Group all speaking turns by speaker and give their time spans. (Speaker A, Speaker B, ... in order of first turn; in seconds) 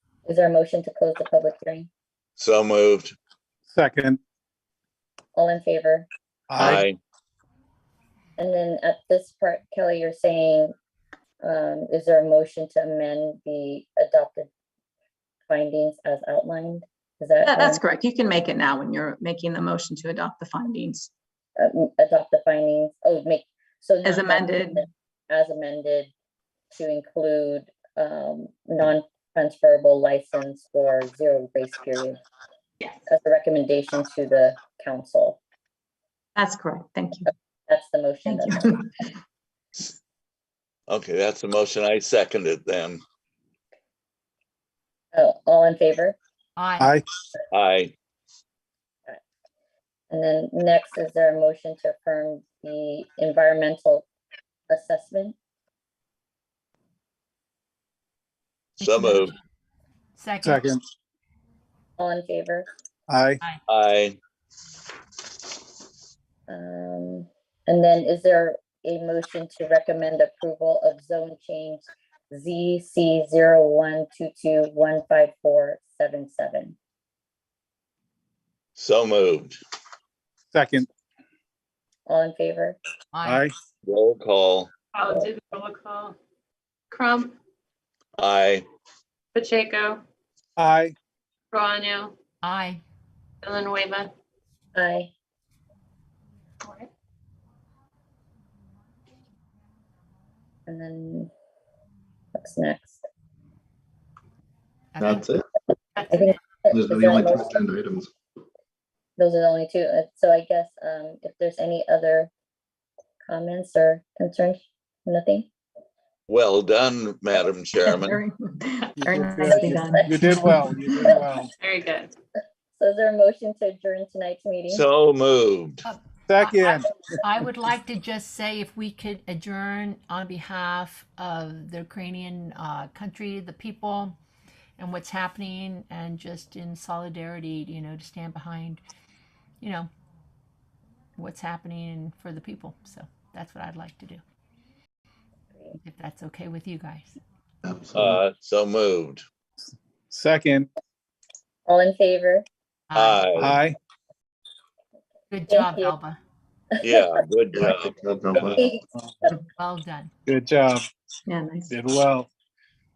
Speaker A: 0.3-1.9, 5.3-6.1, 8.4-10.7, 11.4-14.5, 15.5-17.8, 21.6-26.1, 26.7-32.2, 33.1-35.4, 37.7-38.8, 45.1-46.2, 50.1-54.1, 54.7-55.4, 62.0-62.7, 66.5-76.8, 82.1-82.8, 94.8-95.1, 100.7-101.3, 102.3-103.0, 106.1-107.6, 109.2-112.3, 113.3-115.5, 119.9-121.2, 122.7-124.8, 145.5-145.8, 151.7-152.5, 155.5-155.9, 156.8-157.2, 158.5-159.4
Speaker B: 2.4-3.1, 6.6-7.0, 40.9-43.0, 47.5-47.9, 58.8-59.3, 63.7-64.2, 78.8-79.6, 83.8-84.7, 88.2-88.7, 116.3-118.2, 124.7-125.8, 147.9-149.2, 152.9-153.6, 156.8-157.9
Speaker C: 3.7-4.2, 6.5-6.8, 60.4-60.8, 63.1-63.4, 80.5-80.9, 83.2-83.5, 90.6-91.0, 119.0-121.5, 126.3-127.0, 150.1-150.7, 153.4-153.8, 160.3-160.8, 161.7-162.3
Speaker D: 17.4-21.1, 24.0-24.8, 36.4-37.3, 38.3-38.8, 117.9-120.6, 158.0-158.5, 161.3-161.7
Speaker E: 46.6-46.9, 58.8-59.4, 60.2-60.7, 83.1-83.5, 92.4-92.8, 104.9-105.3, 125.8-134.2, 134.8-138.8, 139.6-139.9, 141.2-144.2, 145.8-147.2, 152.9-153.2, 155.3-156.2, 159.6-160.1
Speaker F: 85.0-86.2, 86.9-87.3, 89.3-90.0, 91.5-92.1, 93.4-94.1, 96.6-96.9, 106.0-106.3, 121.6-122.1
Speaker G: 105.0-105.4, 106.7-108.1, 147.7-148.1, 157.6-158.6